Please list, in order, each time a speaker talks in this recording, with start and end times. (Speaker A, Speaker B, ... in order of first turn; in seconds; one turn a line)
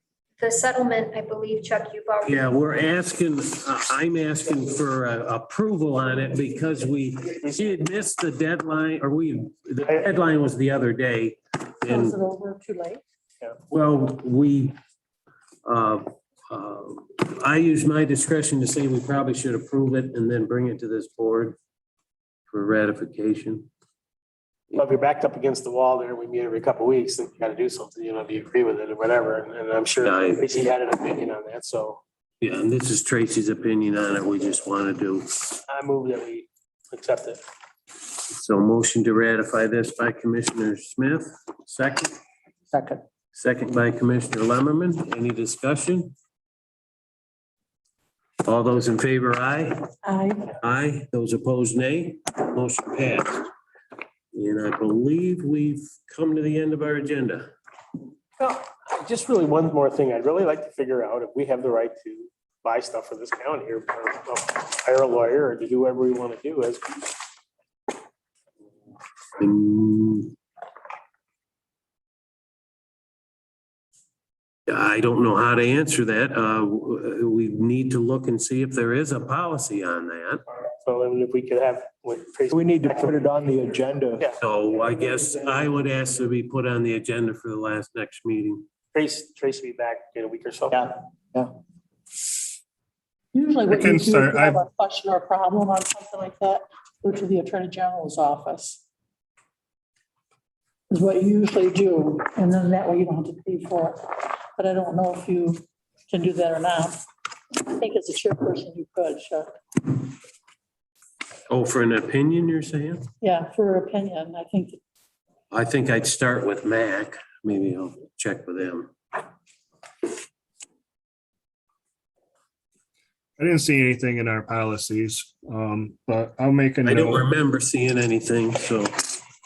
Speaker A: 0.4-2.5
Speaker B: 2.2-12.2
Speaker C: 11.8-13.0
Speaker B: 13.7-14.8
Speaker B: 15.7-21.6
Speaker B: 22.5-23.7
Speaker D: 24.7-32.0
Speaker B: 30.0-30.5
Speaker B: 32.4-35.6
Speaker D: 35.7-37.4
Speaker B: 38.3-42.1
Speaker E: 42.7-43.0
Speaker B: 43.4-46.1
Speaker B: 48.5-49.9
Speaker C: 50.0-50.4
Speaker B: 50.6-53.5
Speaker B: 54.3-57.5
Speaker D: 58.4-67.2
Speaker B: 69.4-70.3
Speaker B: 74.7-80.4
Speaker D: 80.8-83.2
Speaker E: 82.5-84.3
Speaker B: 84.4-88.7
Speaker D: 88.9-90.8
Speaker E: 90.7-91.5
Speaker C: 93.3-98.8
Speaker F: 93.7-94.6
Speaker C: 100.9-107.0
Speaker C: 107.5-109.5
Speaker B: 111.5-113.0
Speaker C: 113.2-114.8
Speaker B: 115.5-118.9
Speaker F: 123.4-127.3
Speaker B: 126.8-129.2